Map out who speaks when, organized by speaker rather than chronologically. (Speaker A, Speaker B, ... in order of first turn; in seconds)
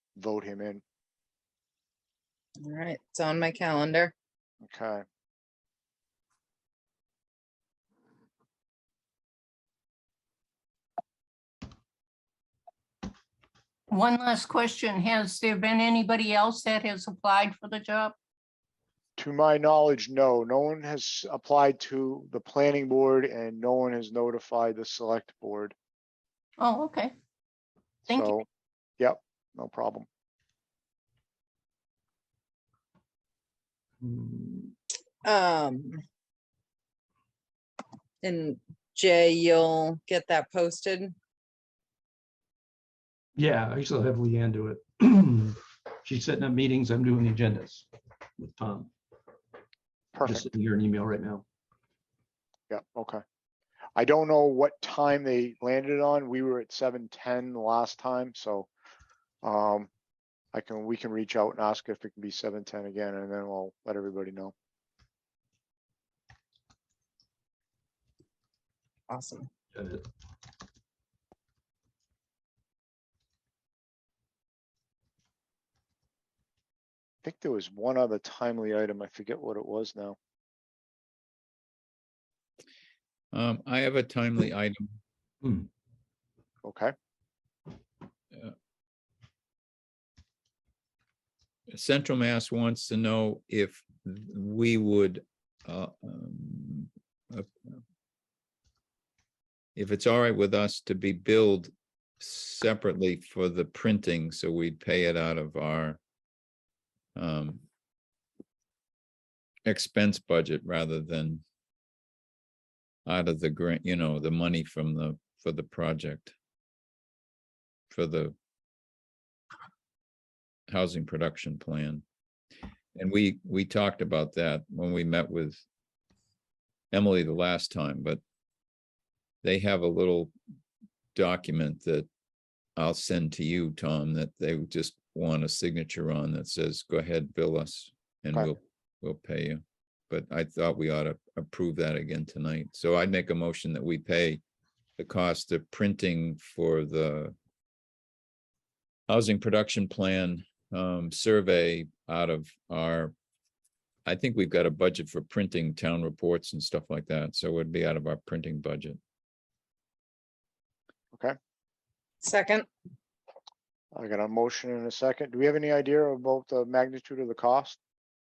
Speaker A: 0.2-0.8, 4.6-5.0, 19.2-25.8, 28.1-28.4, 29.0-30.1, 50.1-50.5, 52.7-53.2, 54.0-58.7, 59.4-59.9, 60.5-64.5, 77.2-80.2, 86.6-86.9, 163.9-167.8
Speaker B: 2.6-4.1, 35.2-36.0, 38.2-41.1, 69.1-69.5, 162.2-162.7
Speaker C: 13.9-18.1, 26.6-27.1, 28.1-28.4
Speaker D: 34.0-34.8, 43.4-47.9, 48.4-48.9, 50.2-51.4, 69.7-70.0
Speaker E: 83.3-85.0, 91.7-97.8, 99.8-106.0, 107.2-107.7, 109.7-111.4, 113.1-116.3, 117.9-118.4, 120.7-122.0, 123.0-125.6, 126.9-128.2, 129.4-130.3, 131.2-132.1, 132.8-144.4, 145.0-147.4, 149.1-153.1, 154.1-159.0